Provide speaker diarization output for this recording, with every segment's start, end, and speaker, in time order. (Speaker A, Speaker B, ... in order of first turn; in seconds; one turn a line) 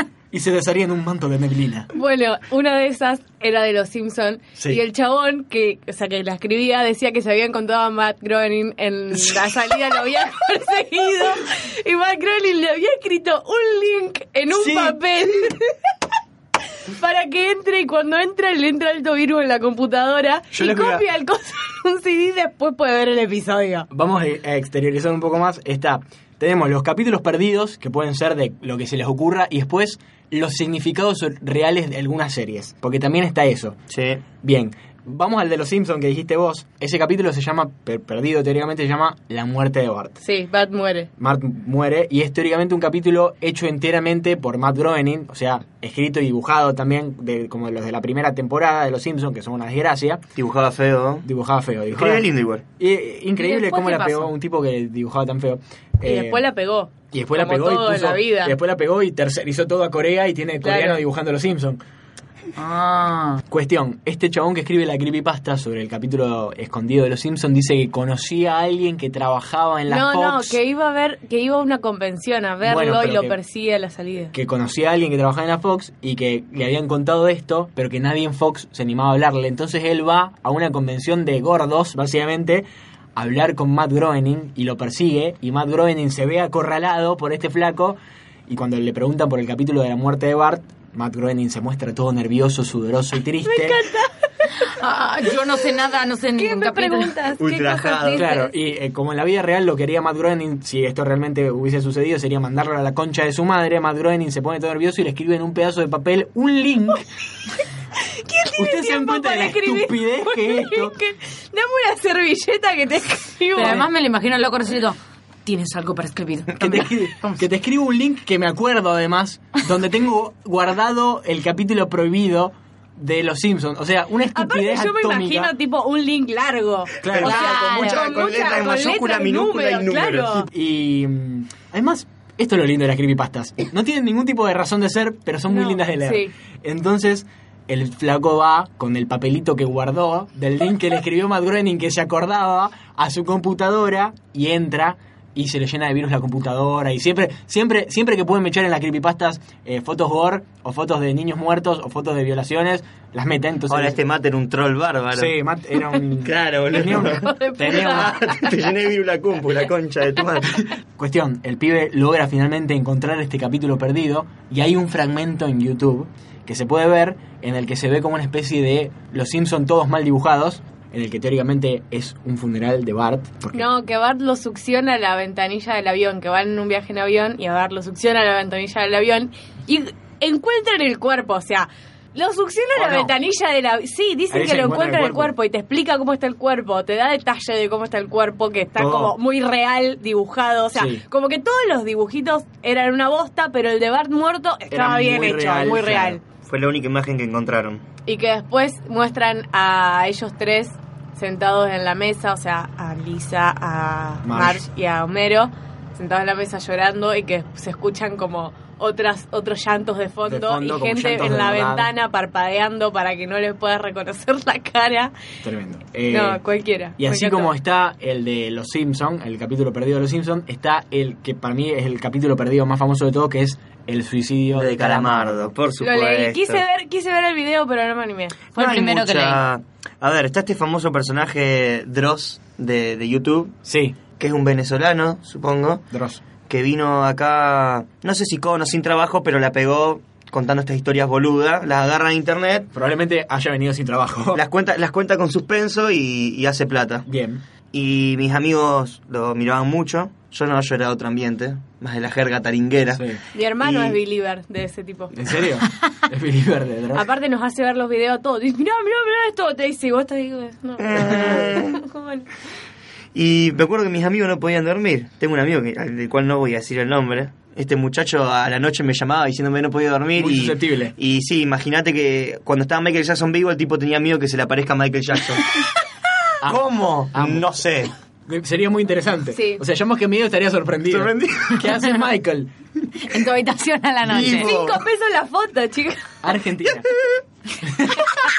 Speaker A: 0.3-1.9
Speaker B: 1.9-15.8
Speaker A: 4.6-4.8
Speaker A: 9.1-9.5
Speaker A: 14.5-15.0
Speaker B: 16.8-23.9
Speaker A: 20.5-21.1
Speaker A: 23.9-33.8
Speaker C: 33.9-34.2
Speaker A: 34.4-40.2
Speaker B: 40.2-41.1
Speaker A: 41.2-50.2
Speaker C: 50.4-51.3
Speaker A: 51.2-52.3
Speaker C: 51.9-52.6
Speaker A: 52.8-56.4
Speaker D: 53.4-54.3
Speaker B: 56.0-58.5
Speaker A: 57.1-61.8
Speaker B: 60.6-61.0
Speaker D: 62.6-63.4
Speaker A: 63.5-70.6
Speaker B: 69.9-74.3
Speaker A: 72.6-73.3
Speaker A: 74.3-93.8
Speaker B: 93.5-94.1
Speaker D: 94.6-97.3
Speaker B: 96.4-98.5
Speaker C: 97.4-98.3
Speaker A: 98.1-107.0
Speaker B: 108.1-113.8
Speaker A: 108.6-111.0
Speaker D: 113.5-117.4
Speaker A: 113.6-113.9
Speaker A: 116.6-125.5
Speaker B: 124.3-130.5
Speaker A: 127.0-127.6
Speaker C: 127.1-130.4
Speaker D: 127.2-128.2
Speaker A: 130.3-154.0
Speaker B: 135.5-136.3
Speaker C: 153.7-155.3
Speaker A: 155.1-158.2
Speaker C: 156.2-160.7
Speaker B: 156.9-158.5
Speaker A: 160.9-173.7
Speaker B: 173.5-196.2
Speaker A: 182.8-183.1
Speaker A: 184.3-185.3
Speaker A: 188.8-189.2
Speaker A: 190.7-191.0
Speaker A: 194.7-196.2
Speaker C: 196.4-197.8
Speaker B: 198.1-215.1
Speaker A: 204.2-204.7
Speaker A: 210.2-211.9
Speaker A: 215.4-216.4
Speaker B: 216.1-217.5
Speaker A: 217.0-225.5
Speaker C: 224.5-226.6
Speaker B: 225.8-228.4
Speaker D: 228.6-229.4
Speaker C: 228.6-233.5
Speaker A: 233.7-234.0
Speaker C: 234.2-235.8
Speaker A: 235.9-236.2
Speaker C: 236.5-242.7
Speaker A: 242.7-244.4
Speaker C: 244.3-247.1
Speaker A: 247.1-247.4
Speaker C: 247.7-253.1
Speaker A: 252.9-253.2
Speaker B: 253.3-255.2
Speaker C: 253.6-254.0
Speaker A: 255.1-257.1
Speaker B: 256.9-262.3
Speaker C: 260.8-261.8
Speaker C: 263.1-275.6
Speaker A: 270.2-270.9
Speaker A: 276.4-277.5
Speaker C: 276.4-277.9
Speaker A: 278.3-282.9
Speaker B: 279.3-279.6
Speaker C: 280.9-281.7
Speaker D: 283.0-284.5
Speaker C: 284.0-284.8
Speaker B: 284.2-286.1
Speaker A: 286.2-286.9
Speaker C: 287.0-287.2
Speaker A: 287.6-288.1